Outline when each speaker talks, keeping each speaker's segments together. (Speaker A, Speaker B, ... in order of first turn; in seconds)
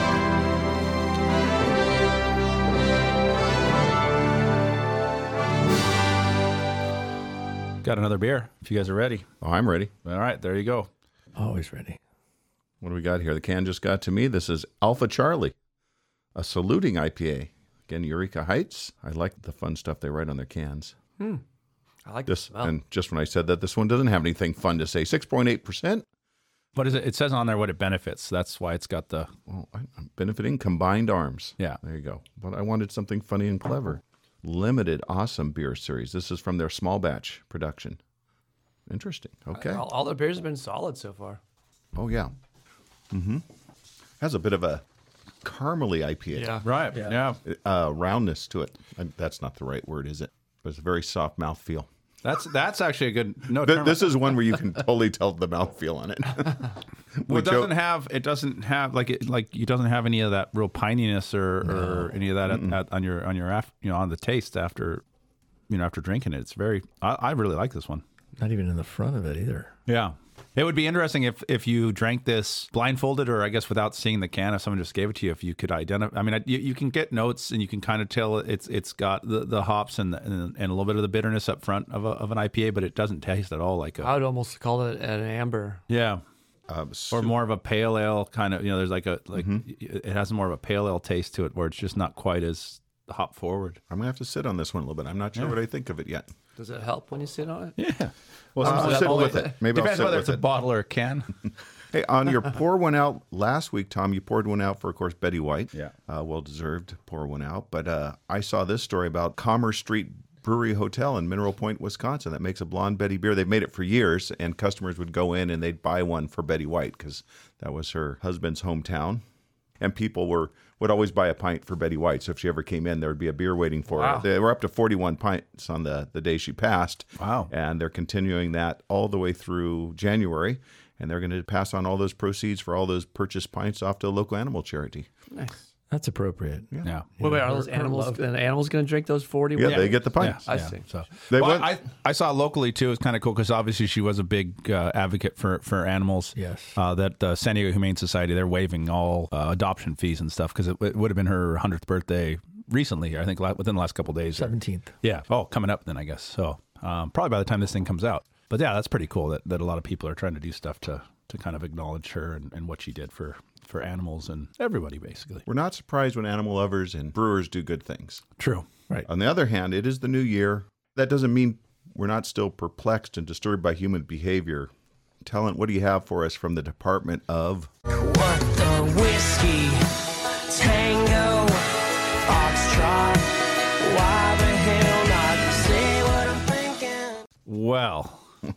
Speaker A: 7.8-9.3, 10.1-10.9, 26.8-29.3, 46.6-47.4, 52.2-54.3, 57.3-65.0, 65.7-68.0, 69.9-84.1, 85.9-86.2, 87.1-93.8, 97.8-101.3, 127.2-127.5, 139.6-165.4, 168.4-168.7, 187.5-188.2
Speaker B: 9.4-9.9, 12.8-15.6, 16.4-21.0, 22.3-26.1, 29.5-38.0, 38.9-39.9, 42.0-42.3, 43.1-43.5, 44.2-44.8, 45.4-46.6, 47.4-51.9, 53.5-57.7, 62.5-62.8, 86.7-87.3, 89.3-89.6, 93.9-96.3, 98.6-100.5, 101.9-119.2, 119.8-135.1, 139.6-140.4, 141.3-141.8, 165.5-168.2, 169.1-174.7, 175.2-177.7
Speaker C: 11.4-12.0, 68.4-69.7, 135.9-138.2, 146.4-146.8, 154.4-154.9
Speaker D: 22.1-22.7, 39.5-41.4, 46.3-46.6, 84.0-85.8, 96.6-97.8, 98.6-99.5, 123.9-124.3, 135.3-135.6, 137.2-140.8
Speaker E: 177.9-187.2